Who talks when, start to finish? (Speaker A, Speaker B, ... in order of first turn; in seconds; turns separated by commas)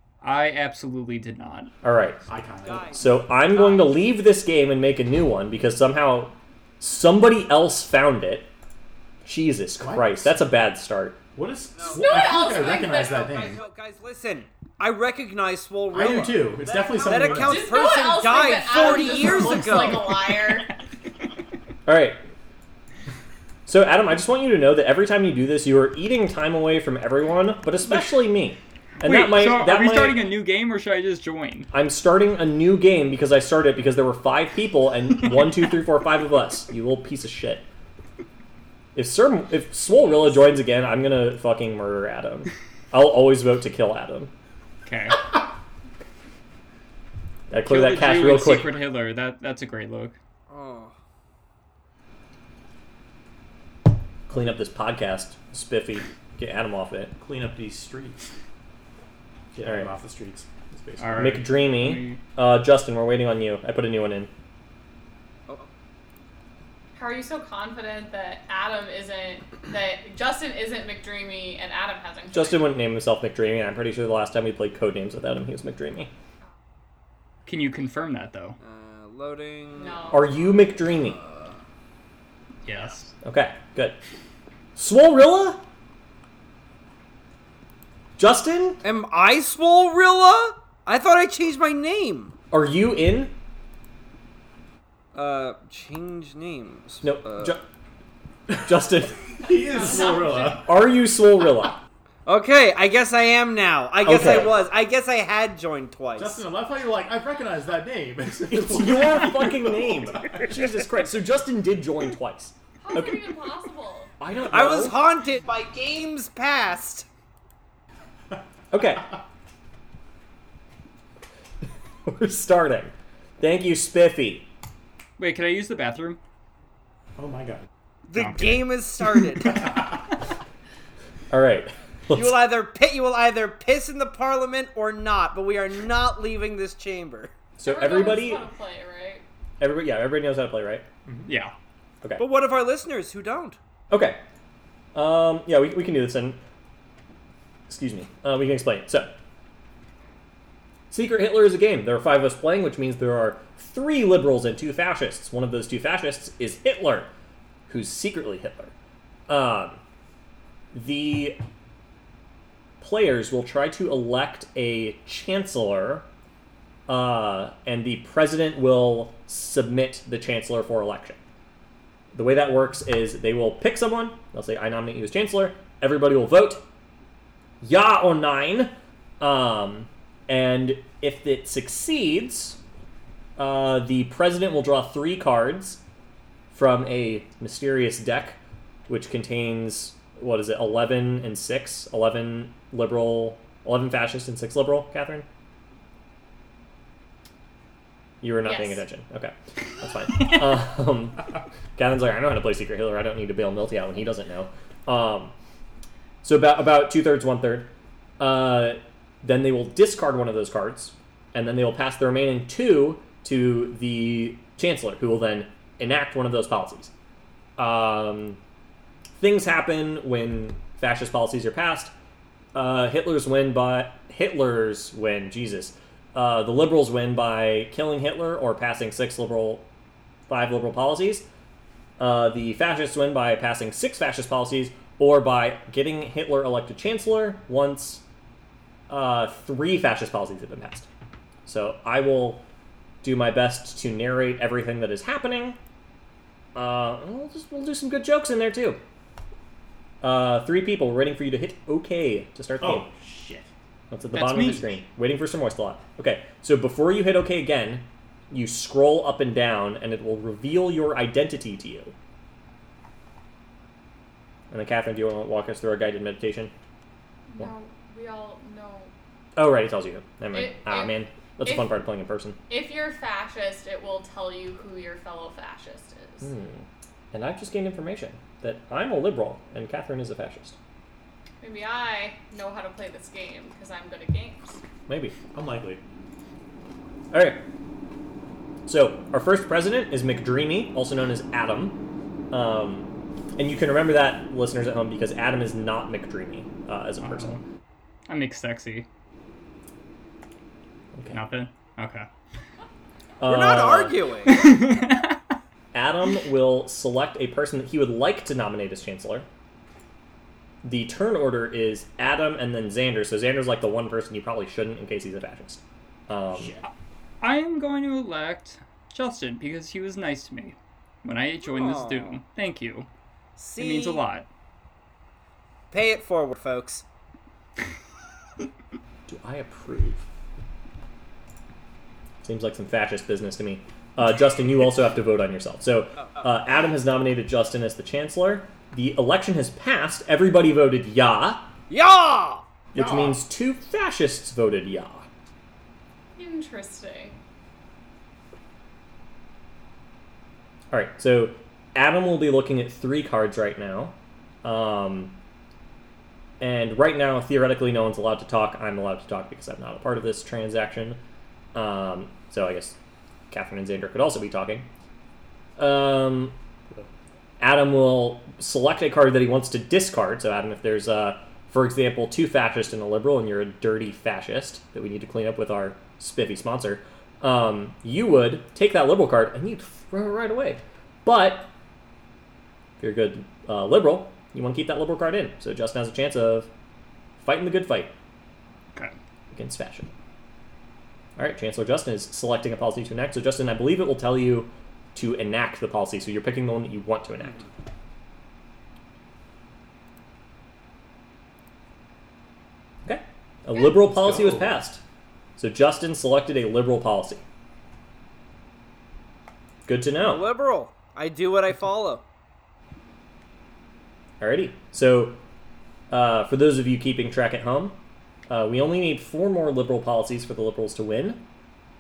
Speaker A: 0.2-1.7, Speaker B: 1.8-2.2, Speaker C: 2.3-3.0, Speaker D: 2.6-3.3, Speaker B: 2.9-8.5, Speaker B: 9.2-11.2, Speaker C: 9.8-10.4, Speaker C: 11.3-13.6, Speaker D: 11.8-20.1, Speaker E: 11.9-13.5, Speaker C: 15.9-17.9, Speaker E: 17.3-20.7, Speaker A: 18.8-20.8, Speaker B: 21.9-22.2, Speaker B: 23.7-30.2, Speaker A: 29.0-31.7, Speaker B: 31.7-37.7, Speaker B: 39.0-44.3, Speaker E: 39.9-40.6, Speaker A: 44.9-45.3, Speaker B: 47.5-48.8, Speaker A: 47.6-50.2, Speaker D: 50.5-51.0, Speaker B: 54.3-57.1, Speaker C: 57.2-58.3, Speaker C: 59.5-61.3, Speaker B: 59.6-59.9, Speaker A: 61.0-62.2, Speaker B: 61.1-64.3, Speaker E: 67.0-72.7, Speaker B: 72.3-76.1, Speaker A: 77.5-78.6, Speaker D: 78.6-81.6, Speaker E: 79.8-80.3, Speaker B: 80.1-81.2, Speaker A: 82.7-83.1, Speaker B: 83.2-84.0, Speaker B: 84.8-85.6, Speaker B: 88.2-88.8, Speaker D: 88.8-92.4, Speaker B: 92.5-93.3, Speaker D: 95.2-97.6, Speaker B: 97.0-97.7, Speaker B: 98.6-99.3, Speaker C: 99.4-100.7, Speaker E: 99.6-100.6, Speaker B: 100.7-101.8, Speaker D: 102.3-106.4, Speaker B: 104.0-104.6, Speaker C: 106.2-110.4, Speaker B: 108.5-113.3, Speaker E: 112.8-114.1, Speaker B: 114.2-115.0, Speaker D: 114.5-117.1, Speaker B: 118.7-119.2, Speaker B: 122.0-124.5, Speaker A: 125.2-126.2, Speaker C: 127.2-127.7, Speaker D: 128.1-129.7, Speaker A: 128.1-128.7, Speaker B: 131.3-132.4, Speaker D: 132.1-137.3, Speaker B: 137.6-138.4, Speaker E: 137.6-139.2, Speaker B: 139.6-140.9, Speaker C: 141.1-141.3, Speaker A: 141.3-141.5, Speaker D: 142.2-143.6, Speaker B: 143.9-144.2, Speaker B: 144.9-146.4, Speaker B: 147.7-149.1, Speaker B: 150.9-157.1, Speaker B: 157.7-158.7, Speaker B: 159.3-159.8, Speaker B: 160.7-161.4, Speaker B: 162.8-166.1, Speaker B: 166.9-171.2, Speaker B: 172.1-176.6, Speaker B: 177.6-182.6, Speaker B: 183.4-185.8, Speaker B: 186.5-195.3, Speaker B: 198.2-205.3, Speaker E: 198.4-198.8, Speaker B: 206.2-216.9, Speaker B: 217.6-218.4, Speaker B: 219.2-221.9, Speaker B: 222.5-229.7, Speaker B: 230.3-231.3, Speaker B: 232.0-238.0, Speaker B: 238.9-240.9, Speaker B: 241.5-242.4, Speaker B: 243.0-245.6, Speaker B: 246.6-248.8, Speaker B: 250.0-252.9, Speaker C: 252.6-253.5, Speaker B: 253.9-261.9, Speaker A: 254.1-254.8, Speaker B: 264.5-266.5, Speaker E: 267.3-268.9, Speaker B: 269.4-272.4, Speaker E: 270.3-271.7, Speaker E: 272.5-276.3, Speaker B: 276.2-280.6, Speaker E: 281.4-284.6, Speaker B: 284.9-285.2, Speaker C: 285.3-285.8, Speaker B: 287.1-287.4, Speaker B: 288.7-297.4, Speaker A: 297.0-297.4, Speaker A: 298.1-298.9, Speaker A: 301.1-302.1, Speaker B: 303.2-304.0, Speaker D: 303.2-304.5, Speaker A: 304.3-305.2, Speaker B: 305.7-309.3, Speaker B: 310.6-316.6, Speaker C: 316.3-316.6, Speaker A: 317.2-322.9, Speaker D: 321.4-322.2, Speaker D: 323.4-324.0, Speaker A: 323.6-324.3, Speaker D: 325.7-326.9, Speaker B: 329.1-330.1, Speaker B: 332.2-341.5, Speaker D: 341.7-342.5, Speaker B: 342.7-345.1, Speaker C: 342.8-343.2, Speaker E: 346.2-347.2, Speaker B: 350.7-355.2, Speaker B: 356.4-361.0, Speaker B: 361.6-362.8, Speaker B: 363.3-364.7, Speaker B: 365.6-366.4, Speaker B: 367.4-381.5, Speaker B: 382.8-386.5, Speaker B: 387.2-387.9, Speaker B: 389.3-389.9, Speaker B: 391.2-397.5, Speaker B: 402.9-404.8, Speaker C: 403.8-404.6, Speaker B: 405.4-407.2, Speaker B: 409.7-410.3, Speaker D: 410.0-412.1, Speaker B: 414.2-415.2, Speaker B: 415.9-421.2